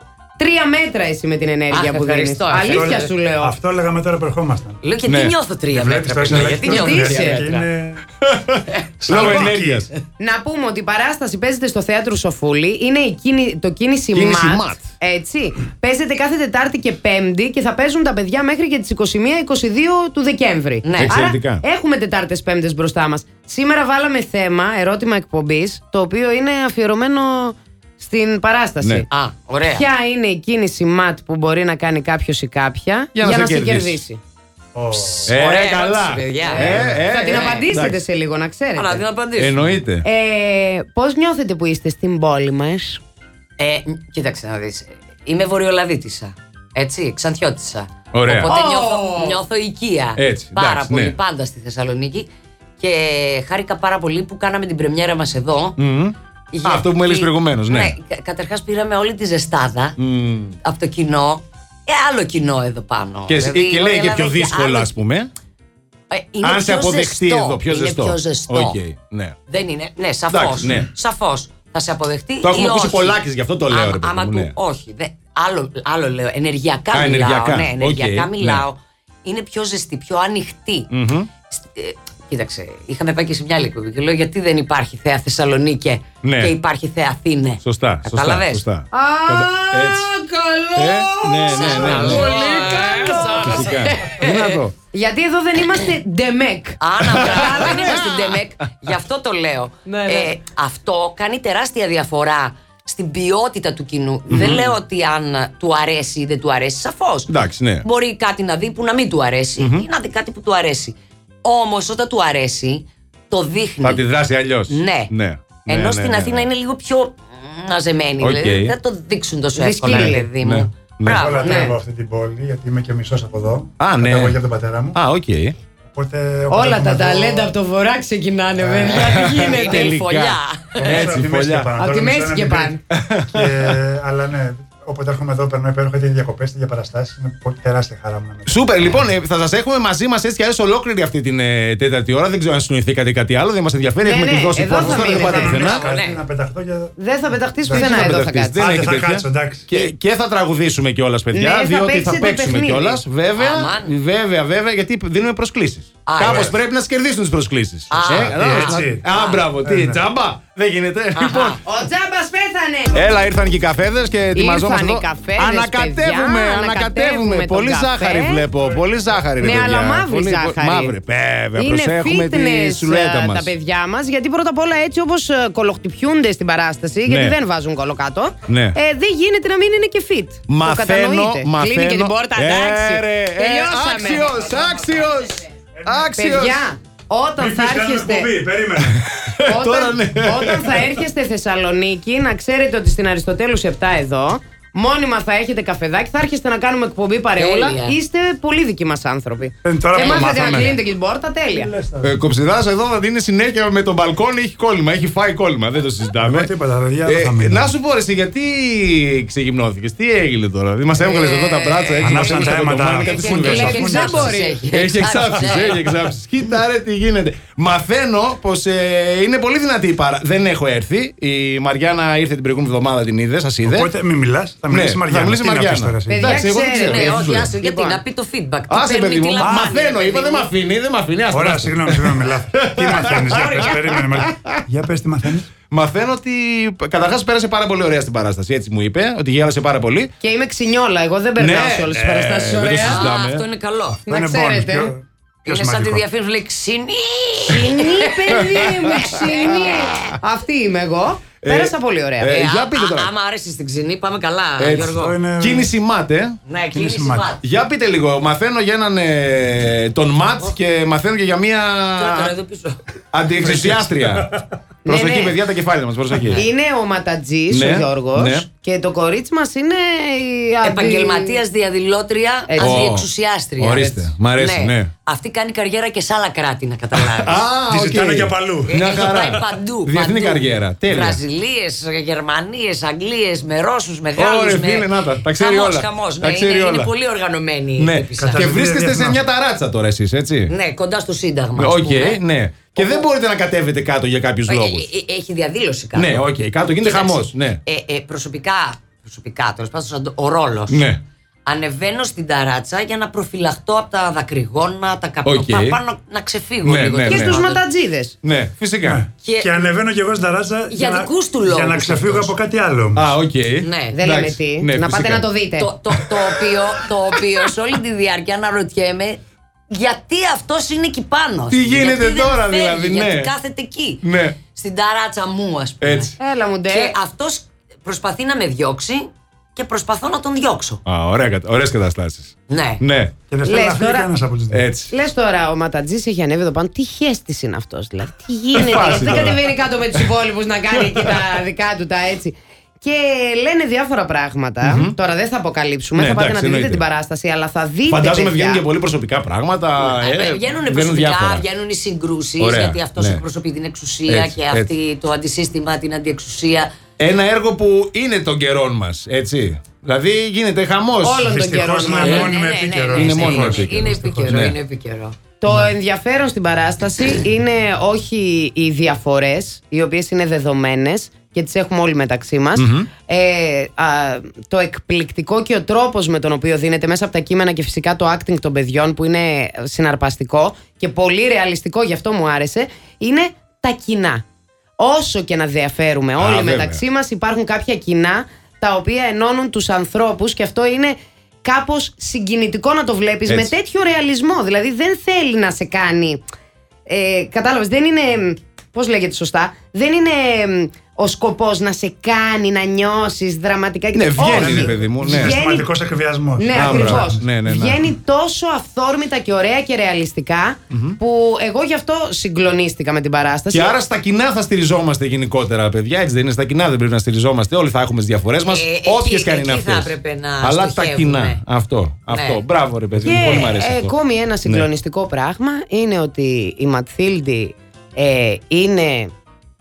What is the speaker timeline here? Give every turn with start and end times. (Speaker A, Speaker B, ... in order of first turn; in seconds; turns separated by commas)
Speaker A: 0.4-3.5, Speaker B: 1.7-3.1, Speaker C: 2.6-4.8, Speaker B: 4.8-7.7, Speaker D: 5.1-5.3, Speaker C: 5.7-8.0, Speaker A: 6.6-7.4, Speaker D: 8.2-9.9, Speaker C: 9.0-9.9, Speaker A: 10.2-29.1, Speaker D: 14.1-14.9, Speaker B: 20.8-21.2, Speaker D: 20.9-21.6, Speaker B: 29.1-29.9, Speaker A: 29.7-34.2, Speaker D: 33.1-34.0, Speaker C: 34.7-35.3, Speaker D: 35.2-38.0, Speaker B: 35.3-37.5, Speaker A: 36.4-39.0, Speaker B: 38.8-39.8, Speaker D: 39.4-40.0, Speaker A: 40.0-43.0, Speaker B: 43.6-52.3, Speaker D: 48.1-48.5, Speaker A: 48.4-49.4, Speaker D: 50.1-51.1, Speaker B: 52.8-55.8, Speaker D: 55.8-58.0, Speaker B: 56.5-60.0, Speaker D: 60.0-60.6, Speaker B: 60.6-64.9, Speaker D: 63.3-65.3, Speaker B: 66.1-68.8, Speaker D: 66.4-69.3, Speaker B: 69.5-80.9, Speaker D: 70.3-70.9, Speaker D: 72.4-74.5, Speaker D: 76.9-78.7, Speaker D: 80.9-81.3, Speaker B: 81.5-88.6, Speaker D: 86.2-86.5, Speaker D: 87.6-90.1, Speaker A: 88.9-93.7, Speaker D: 90.8-94.7, Speaker B: 91.5-94.6, Speaker C: 91.7-93.1, Speaker A: 94.9-97.8, Speaker B: 96.8-107.3, Speaker D: 97.0-98.4, Speaker A: 99.8-100.3, Speaker D: 104.3-104.8, Speaker D: 107.3-107.8, Speaker B: 107.8-114.0, Speaker D: 109.6-109.8, Speaker D: 113.8-116.5, Speaker B: 114.7-115.1, Speaker B: 115.6-121.7, Speaker D: 118.2-118.7, Speaker A: 119.5-120.3, Speaker D: 119.8-121.4, Speaker C: 121.1-125.0, Speaker A: 121.4-121.7, Speaker D: 123.8-124.4, Speaker D: 124.9-125.5, Speaker C: 125.9-127.5, Speaker A: 126.5-129.6, Speaker D: 128.6-131.7, Speaker B: 128.8-131.1, Speaker C: 130.8-132.8, Speaker A: 131.8-132.8, Speaker D: 132.9-133.8, Speaker C: 133.3-139.1, Speaker D: 138.5-145.8, Speaker A: 144.0-145.6, Speaker C: 144.7-149.7, Speaker B: 145.3-146.2, Speaker A: 147.0-148.6, Speaker D: 147.7-161.6, Speaker A: 151.3-153.0, Speaker B: 153.4-153.9, Speaker B: 156.0-156.5, Speaker C: 156.2-156.6, Speaker B: 157.9-159.4, Speaker C: 158.1-159.0, Speaker C: 159.6-160.0, Speaker B: 161.1-161.6, Speaker A: 161.6-163.1, Speaker D: 162.9-173.5, Speaker A: 164.3-168.4, Speaker A: 169.4-170.9, Speaker A: 171.6-184.7, Speaker D: 177.1-177.4, Speaker D: 178.4-178.8, Speaker D: 180.5-186.7, Speaker C: 185.7-186.1, Speaker A: 186.2-188.3, Speaker C: 187.4-189.0, Speaker D: 188.8-190.9, Speaker A: 189.5-201.7, Speaker B: 197.4-197.9, Speaker C: 199.6-200.8, Speaker D: 200.0-200.7, Speaker C: 201.5-202.2, Speaker D: 202.0-206.5, Speaker C: 206.2-207.7, Speaker D: 207.0-223.9, Speaker B: 210.9-212.7, Speaker C: 212.0-214.3, Speaker A: 213.0-214.6, Speaker B: 213.3-215.8, Speaker C: 223.6-226.4, Speaker D: 224.7-227.6, Speaker A: 226.1-228.0, Speaker B: 226.8-230.5, Speaker D: 228.7-234.6, Speaker C: 229.4-229.7, Speaker C: 231.3-235.5, Speaker B: 233.3-233.8, Speaker D: 235.7-240.1, Speaker A: 240.2-243.0, Speaker D: 241.4-243.4, Speaker C: 242.0-242.8, Speaker B: 242.8-244.0, Speaker C: 244.0-246.0, Speaker A: 244.1-244.9, Speaker B: 245.4-248.1, Speaker A: 247.5-252.3, Speaker D: 248.3-250.2, Speaker B: 249.0-249.8, Speaker D: 251.4-253.1, Speaker B: 252.3-255.2, Speaker D: 254.6-256.4, Speaker C: 254.9-255.7, Speaker B: 256.5-257.4, Speaker C: 256.7-257.3, Speaker D: 257.4-262.3, Speaker B: 262.0-262.8, Speaker D: 263.1-264.3, Speaker C: 263.4-264.4, Speaker A: 264.8-265.4, Speaker D: 264.9-266.4, Speaker A: 266.3-271.4, Speaker D: 267.5-268.5, Speaker B: 270.6-277.4, Speaker A: 272.5-272.9, Speaker D: 272.6-273.1, Speaker D: 273.6-274.9, Speaker D: 277.0-281.2, Speaker C: 277.7-278.7, Speaker B: 278.6-288.5, Speaker D: 284.1-286.9, Speaker D: 287.8-290.5, Speaker C: 288.2-289.2, Speaker B: 290.5-292.2, Speaker D: 291.6-294.9, Speaker B: 292.7-293.1, Speaker B: 294.5-296.2, Speaker D: 295.9-297.6, Speaker B: 296.8-300.8, Speaker D: 300.7-301.0, Speaker B: 301.4-307.6, Speaker D: 305.2-305.8, Speaker D: 306.6-307.4, Speaker A: 307.1-308.1, Speaker D: 308.2-309.0, Speaker C: 308.8-313.1, Speaker B: 309.2-309.7, Speaker B: 310.7-312.3, Speaker D: 312.9-315.3, Speaker B: 313.6-314.1, Speaker A: 313.9-315.7, Speaker B: 315.6-319.2, Speaker D: 315.9-317.2, Speaker B: 319.7-326.1, Speaker D: 321.5-323.3, Speaker D: 324.0-324.4, Speaker D: 325.8-326.1, Speaker A: 326.2-326.9, Speaker B: 326.7-330.8, Speaker D: 330.8-333.1, Speaker B: 332.5-332.8, Speaker C: 333.3-334.7, Speaker A: 333.4-334.1, Speaker D: 334.5-334.9, Speaker A: 334.9-348.6, Speaker D: 338.5-339.4, Speaker C: 338.8-339.3, Speaker D: 340.7-341.3, Speaker D: 344.6-344.9, Speaker D: 345.9-346.8, Speaker D: 347.9-351.4, Speaker B: 349.8-356.7, Speaker D: 352.4-353.2, Speaker D: 354.1-354.7, Speaker D: 357.0-362.3, Speaker A: 361.0-362.3, Speaker C: 361.2-364.4, Speaker B: 361.9-365.1, Speaker D: 362.9-364.6, Speaker A: 365.4-384.2, Speaker D: 372.5-372.9, Speaker A: 384.8-396.2, Speaker D: 386.2-386.8, Speaker D: 393.3-393.5, Speaker A: 396.9-405.7, Speaker D: 403.9-405.4, Speaker C: 404.2-407.3, Speaker A: 406.4-413.8, Speaker D: 406.5-407.8, Speaker D: 410.7-411.0, Speaker D: 413.5-423.9, Speaker B: 418.4-421.4, Speaker B: 422.1-422.4, Speaker A: 423.0-429.1, Speaker B: 423.2-423.4